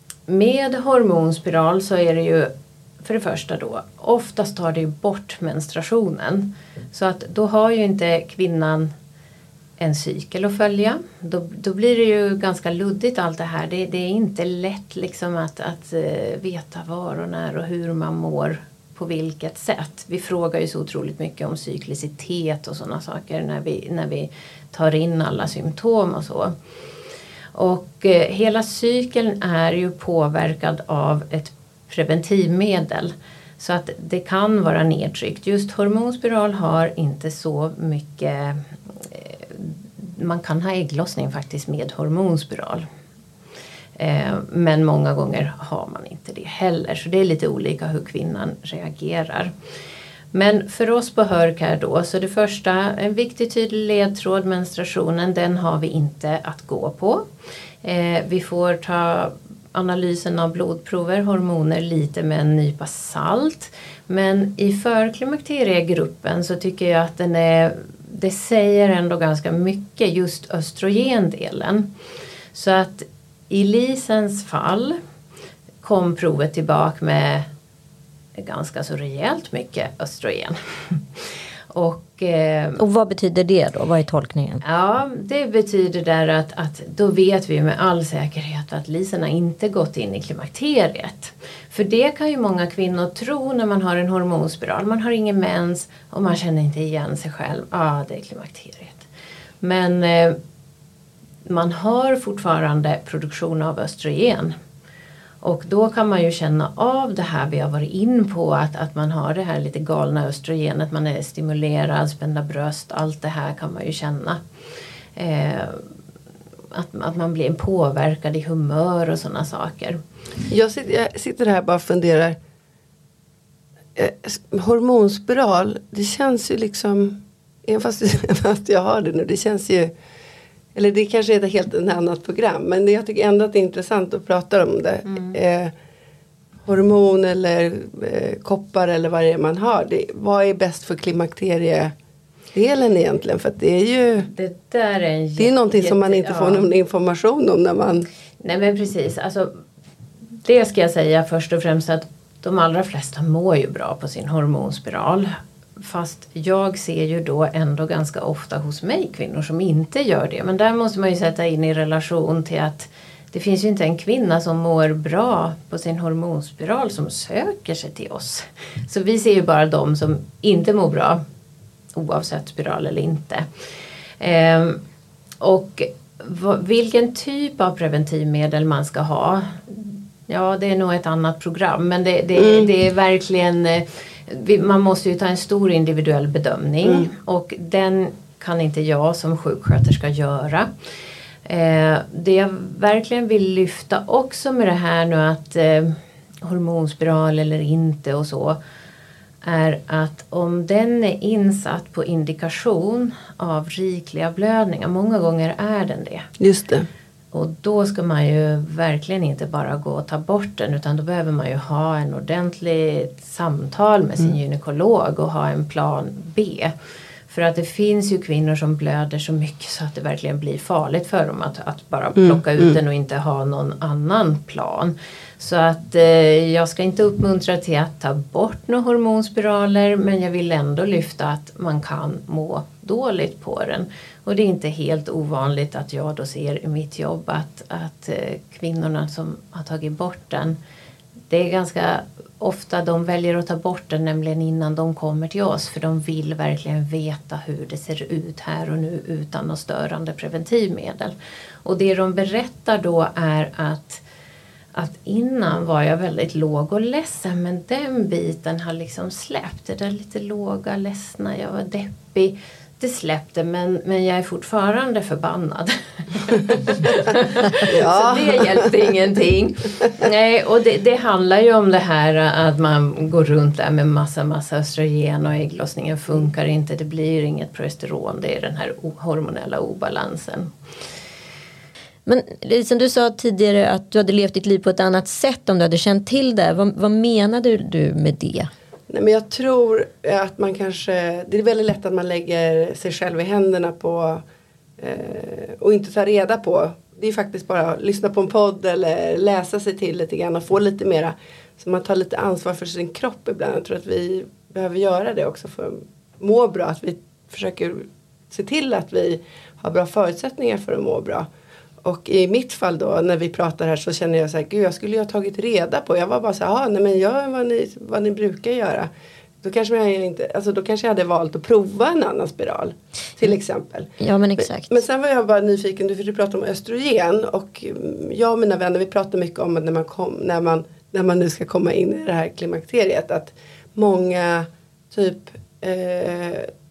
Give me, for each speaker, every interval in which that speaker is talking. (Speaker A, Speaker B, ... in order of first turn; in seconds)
Speaker A: 0.3-8.9, 9.8-26.6, 27.5-42.9, 44.0-49.5, 50.3-57.2, 57.8-71.9, 72.5-75.0, 75.8-77.5, 78.3-82.8, 84.6-99.1, 99.6-100.4, 101.5-104.5, 105.4-114.4, 115.2-115.9, 116.7-120.0, 135.1-135.4, 144.2-146.7, 148.4-149.6, 150.4-171.2, 171.9-173.5, 174.2-174.8, 175.4-190.7, 191.5-198.6, 199.4-206.3, 207.3-216.7, 217.3-240.6, 241.3-254.0, 254.7-280.5
Speaker B: 82.8-84.6, 282.1-288.5, 324.0-324.8
Speaker C: 120.5-122.4, 124.0-129.9, 130.8-135.7, 136.7-141.9, 142.5-144.3, 145.4-148.1, 182.4-182.7, 186.8-187.1, 206.4-206.9, 222.2-222.8, 267.6-268.7, 288.9-294.2, 294.8-311.3, 311.8-318.9, 319.4-336.5